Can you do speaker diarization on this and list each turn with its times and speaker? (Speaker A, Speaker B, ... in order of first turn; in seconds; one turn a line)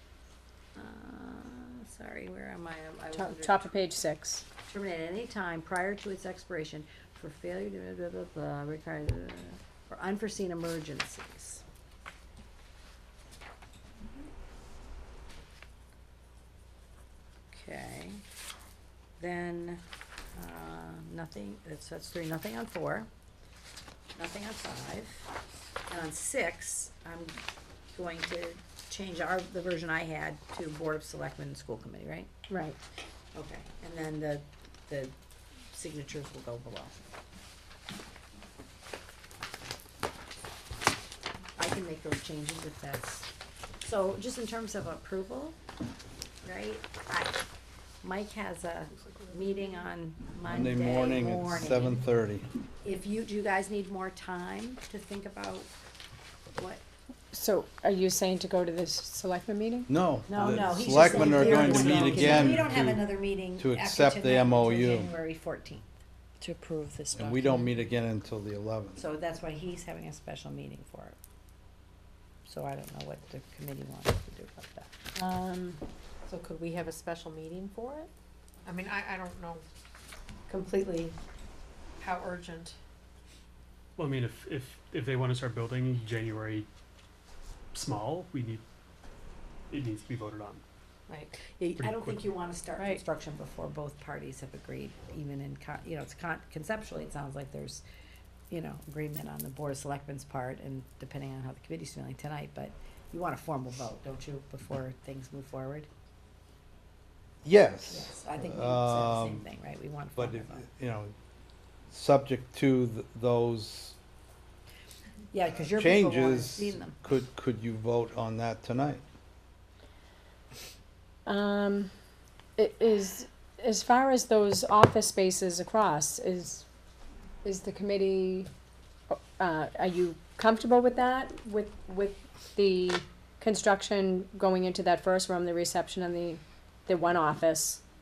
Speaker A: 0.7-3.7
Speaker B: 3.1-4.4
Speaker A: 4.7-11.6
Speaker A: 17.5-18.2
Speaker A: 19.2-19.8
Speaker A: 20.3-23.1
Speaker A: 24.2-25.3
Speaker A: 25.9-27.4
Speaker A: 27.9-32.3
Speaker B: 32.5-32.8
Speaker A: 33.3-35.1
Speaker A: 35.7-37.0
Speaker A: 41.6-43.3
Speaker A: 43.8-45.5
Speaker A: 46.4-47.4
Speaker A: 48.0-52.0
Speaker C: 50.5-52.5
Speaker A: 52.8-55.7
Speaker A: 56.5-56.8
Speaker B: 57.3-59.9
Speaker C: 59.9-65.1
Speaker A: 60.3-65.8
Speaker C: 67.1-69.0
Speaker A: 69.0-71.2
Speaker A: 72.5-75.0
Speaker B: 75.2-75.8
Speaker D: 76.3-78.1
Speaker D: 78.6-79.6
Speaker A: 80.5-81.1
Speaker D: 82.0-82.7
Speaker E: 84.0-86.7
Speaker E: 87.7-88.6
Speaker E: 89.7-90.6
Speaker D: 91.1-91.4
Speaker A: 91.5-97.8
Speaker E: 91.8-92.3
Speaker A: 98.5-105.9
Speaker C: 107.4-109.4
Speaker A: 107.9-110.6
Speaker C: 110.2-111.1
Speaker C: 111.9-114.0
Speaker A: 115.3-117.0
Speaker C: 115.7-119.0
Speaker B: 121.2-121.9
Speaker B: 122.5-126.6
Speaker B: 127.4-128.5
Speaker B: 129.1-137.8